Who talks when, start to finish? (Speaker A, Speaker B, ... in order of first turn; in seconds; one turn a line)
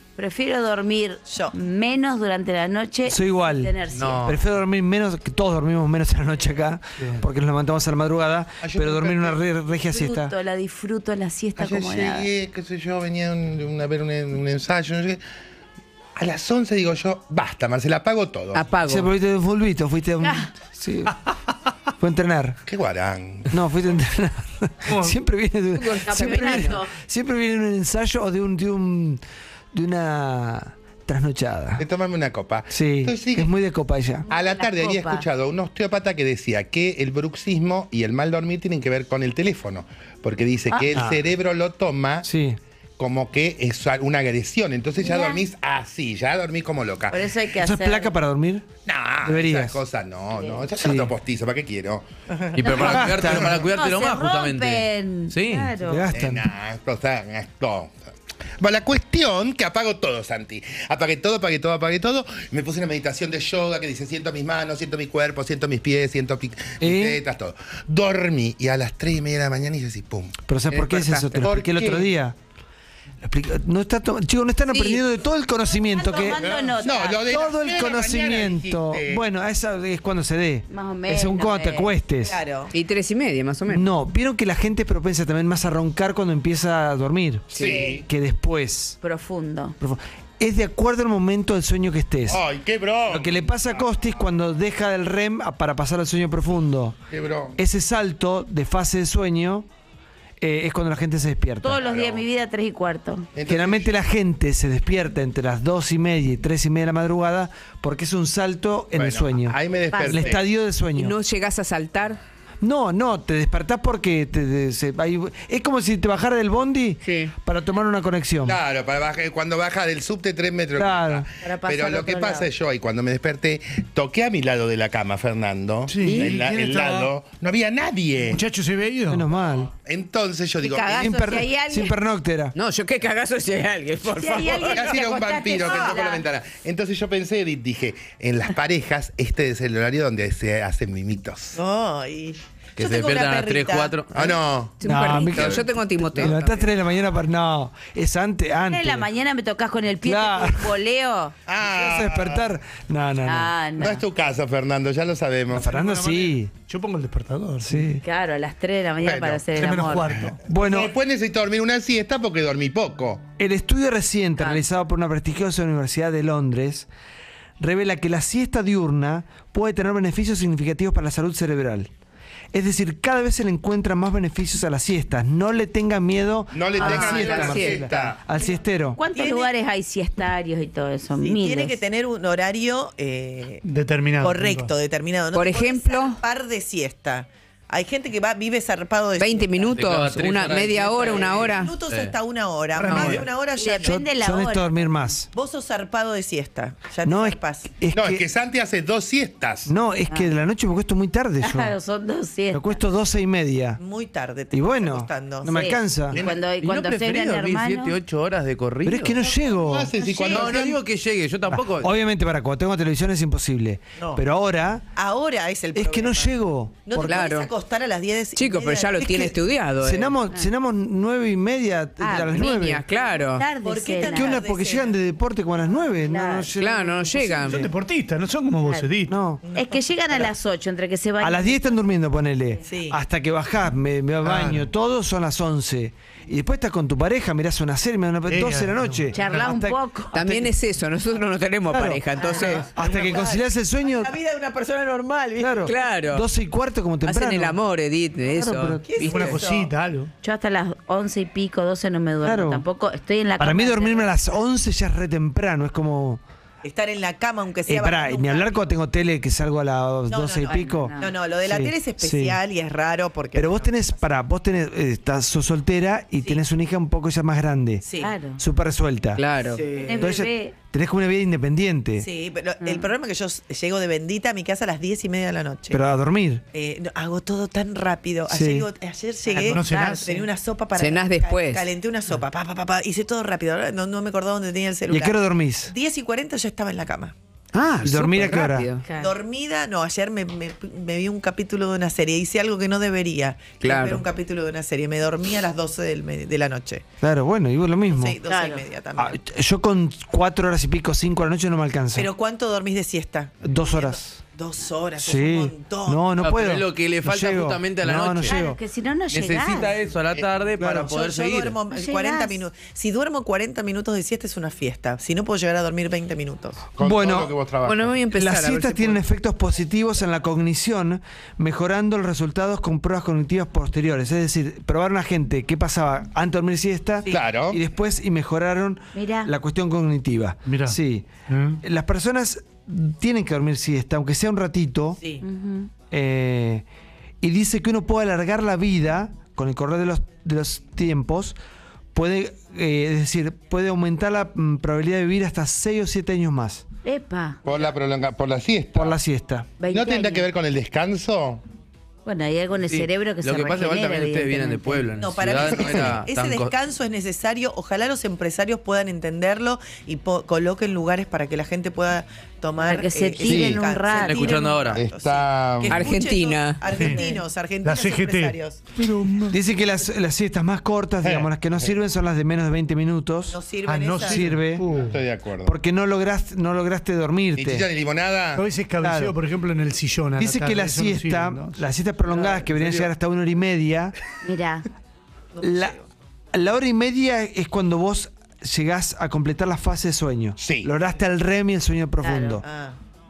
Speaker A: 0.2-4.3
Speaker B: 1.2-1.5
Speaker C: 3.1-10.3
Speaker D: 3.9-4.3
Speaker E: 8.6-9.4
Speaker A: 9.8-12.3
Speaker E: 11.6-15.2
Speaker E: 16.2-18.6
Speaker F: 18.6-19.1
Speaker C: 18.8-21.2
Speaker A: 20.2-20.5
Speaker C: 22.0-22.6
Speaker E: 22.7-23.6
Speaker C: 23.5-29.2
Speaker G: 24.9-25.1
Speaker F: 25.8-26.2
Speaker A: 26.0-26.9
Speaker C: 29.7-31.8
Speaker E: 31.8-33.5
Speaker C: 32.7-34.3
Speaker A: 34.2-35.2
Speaker E: 34.3-42.3
Speaker A: 40.7-41.0
Speaker C: 41.0-41.2
Speaker C: 42.2-42.6
Speaker E: 43.0-47.3
Speaker A: 45.0-45.4
Speaker A: 47.1-48.2
Speaker C: 47.5-48.7
Speaker E: 48.9-52.0
Speaker C: 49.2-49.8
Speaker A: 50.3-50.7
Speaker C: 50.7-51.1
Speaker B: 52.3-52.8
Speaker D: 52.5-55.7
Speaker E: 52.6-53.7
Speaker C: 52.8-53.5
Speaker A: 53.7-56.1
Speaker C: 55.8-56.5
Speaker E: 56.1-70.4
Speaker C: 66.8-67.2
Speaker C: 70.5-72.4
Speaker F: 70.7-71.5
Speaker E: 71.4-72.1
Speaker C: 73.2-76.4
Speaker A: 74.7-75.1
Speaker A: 75.6-77.4
Speaker E: 76.1-79.3
Speaker C: 77.3-82.4
Speaker A: 80.7-82.0
Speaker B: 82.2-82.7
Speaker F: 82.7-83.8
Speaker C: 83.7-89.0
Speaker E: 87.5-88.1
Speaker A: 87.6-87.9
Speaker A: 89.0-89.8
Speaker C: 89.8-92.4
Speaker E: 92.3-93.8
Speaker C: 93.1-97.0
Speaker E: 97.1-97.6
Speaker C: 97.6-99.7
Speaker C: 100.4-101.8
Speaker A: 101.6-103.3
Speaker E: 101.8-102.3
Speaker E: 103.4-104.0
Speaker C: 103.5-111.2
Speaker E: 108.9-110.4
Speaker A: 109.9-110.4
Speaker F: 111.0-112.2
Speaker C: 112.6-118.6
Speaker E: 118.4-128.4
Speaker C: 120.8-121.3
Speaker A: 121.4-122.5
Speaker G: 125.9-127.1
Speaker G: 128.3-129.3
Speaker C: 129.1-129.7
Speaker E: 129.6-131.3
Speaker A: 130.7-131.9
Speaker C: 130.9-132.5
Speaker F: 132.6-134.8
Speaker A: 134.1-136.2
Speaker E: 134.5-141.6
Speaker B: 141.5-143.9
Speaker D: 142.8-144.4
Speaker E: 144.1-144.8
Speaker F: 144.8-146.7
Speaker C: 144.8-149.1
Speaker A: 148.6-151.3
Speaker C: 150.0-150.8
Speaker E: 151.5-152.5
Speaker C: 151.6-153.5
Speaker A: 153.2-154.0
Speaker E: 153.8-155.7
Speaker C: 155.5-156.5
Speaker G: 155.5-157.8
Speaker C: 157.6-158.0
Speaker A: 157.9-160.2
Speaker E: 159.0-163.2
Speaker G: 159.5-160.4
Speaker C: 160.4-160.9
Speaker C: 163.4-166.9
Speaker A: 164.4-164.7
Speaker C: 167.6-171.9
Speaker C: 172.5-179.0
Speaker E: 176.5-178.2
Speaker A: 176.8-177.1
Speaker D: 176.8-177.5
Speaker B: 177.0-177.6
Speaker F: 177.5-177.8
Speaker A: 178.9-181.8
Speaker B: 179.1-179.5
Speaker B: 181.2-183.6
Speaker G: 183.6-184.7
Speaker B: 184.2-190.1
Speaker F: 185.3-186.2
Speaker F: 189.2-191.7
Speaker D: 189.7-192.1
Speaker B: 191.0-194.1
Speaker G: 192.8-193.3
Speaker A: 193.5-195.0
Speaker C: 193.8-195.3
Speaker B: 195.3-197.7
Speaker C: 197.0-198.2
Speaker E: 197.9-199.7
Speaker C: 199.7-201.8
Speaker A: 201.4-202.9
Speaker C: 202.5-203.8
Speaker B: 203.8-205.6
Speaker C: 204.5-206.2
Speaker A: 205.4-208.0
Speaker E: 206.1-206.4
Speaker D: 206.6-209.2
Speaker C: 208.8-209.9
Speaker E: 209.5-210.8
Speaker B: 210.0-210.5
Speaker D: 210.2-211.9
Speaker C: 211.5-214.8
Speaker B: 214.0-214.2
Speaker B: 214.9-216.3
Speaker C: 215.7-217.2
Speaker B: 216.9-219.4
Speaker F: 217.0-217.4
Speaker F: 218.3-220.1
Speaker C: 219.8-222.8
Speaker F: 222.0-223.4
Speaker A: 223.3-224.3
Speaker B: 223.6-225.0
Speaker C: 224.1-227.7
Speaker A: 226.0-226.6
Speaker F: 226.6-227.5
Speaker G: 227.4-229.2
Speaker A: 228.6-228.9
Speaker C: 229.1-229.4
Speaker B: 229.4-230.3
Speaker A: 229.5-231.7
Speaker C: 231.2-240.5
Speaker B: 232.7-233.0
Speaker G: 234.2-234.7
Speaker G: 238.3-239.4
Speaker A: 239.1-240.2
Speaker F: 240.2-242.6
Speaker C: 241.7-244.1
Speaker B: 242.2-245.7
Speaker C: 245.4-247.6
Speaker F: 245.6-246.2
Speaker F: 247.0-249.1
Speaker C: 248.2-249.3
Speaker B: 248.8-249.7
Speaker G: 249.0-250.1
Speaker A: 250.2-254.4
Speaker C: 252.2-252.6
Speaker C: 253.4-256.2
Speaker B: 256.6-258.6
Speaker C: 257.7-262.4
Speaker B: 260.1-263.9
Speaker A: 260.4-261.2
Speaker C: 263.3-269.2
Speaker B: 267.8-268.1
Speaker A: 268.0-268.4
Speaker F: 269.2-269.6
Speaker B: 269.5-270.1
Speaker A: 269.8-270.6
Speaker C: 269.9-272.1
Speaker B: 272.0-275.8
Speaker A: 272.6-272.9
Speaker C: 275.7-276.4
Speaker B: 276.5-287.1
Speaker C: 278.3-278.6
Speaker G: 279.3-280.2
Speaker A: 279.6-280.1
Speaker F: 280.8-281.6
Speaker C: 284.9-285.7
Speaker F: 287.5-288.8
Speaker C: 287.8-288.7
Speaker A: 288.8-289.1
Speaker B: 289.0-296.8
Speaker F: 293.6-294.0
Speaker C: 297.0-298.2
Speaker B: 297.9-299.2
Speaker A: 298.2-298.6
Speaker C: 299.0-302.1
Speaker B: 301.9-306.1
Speaker C: 303.4-304.2
Speaker C: 305.0-308.6
Speaker D: 306.2-308.4
Speaker A: 308.2-309.8
Speaker D: 309.1-311.6
Speaker C: 310.6-310.9
Speaker B: 310.7-316.6
Speaker A: 311.7-312.4
Speaker E: 316.8-318.0
Speaker C: 316.8-317.3
Speaker F: 317.6-319.0
Speaker C: 318.1-331.1
Speaker E: 327.1-327.6
Speaker A: 328.9-329.3
Speaker G: 330.4-331.6
Speaker C: 331.6-335.0
Speaker A: 335.2-335.7
Speaker C: 335.9-336.6
Speaker C: 337.2-341.4
Speaker C: 341.9-346.6
Speaker A: 346.8-347.4
Speaker E: 347.4-349.0
Speaker C: 348.7-349.5
Speaker A: 349.6-350.3
Speaker E: 349.7-351.4
Speaker A: 352.1-354.9
Speaker D: 352.6-356.5
Speaker B: 355.0-368.6
Speaker E: 355.4-356.0
Speaker A: 362.6-364.2
Speaker E: 363.2-363.6
Speaker D: 363.9-364.8
Speaker E: 364.7-365.8
Speaker F: 365.7-366.6
Speaker G: 366.7-367.1
Speaker G: 367.6-369.4
Speaker C: 369.3-373.4
Speaker E: 371.0-371.8
Speaker B: 373.3-374.4
Speaker G: 373.6-375.0
Speaker C: 374.0-374.6
Speaker E: 374.8-375.6
Speaker C: 375.4-377.7
Speaker E: 377.3-378.4
Speaker G: 378.4-381.7
Speaker C: 378.8-379.1
Speaker C: 380.2-383.9
Speaker A: 384.2-384.7
Speaker B: 385.3-385.8
Speaker C: 385.4-385.8
Speaker C: 386.3-392.4
Speaker E: 390.4-390.7
Speaker A: 392.0-392.4
Speaker B: 392.4-392.8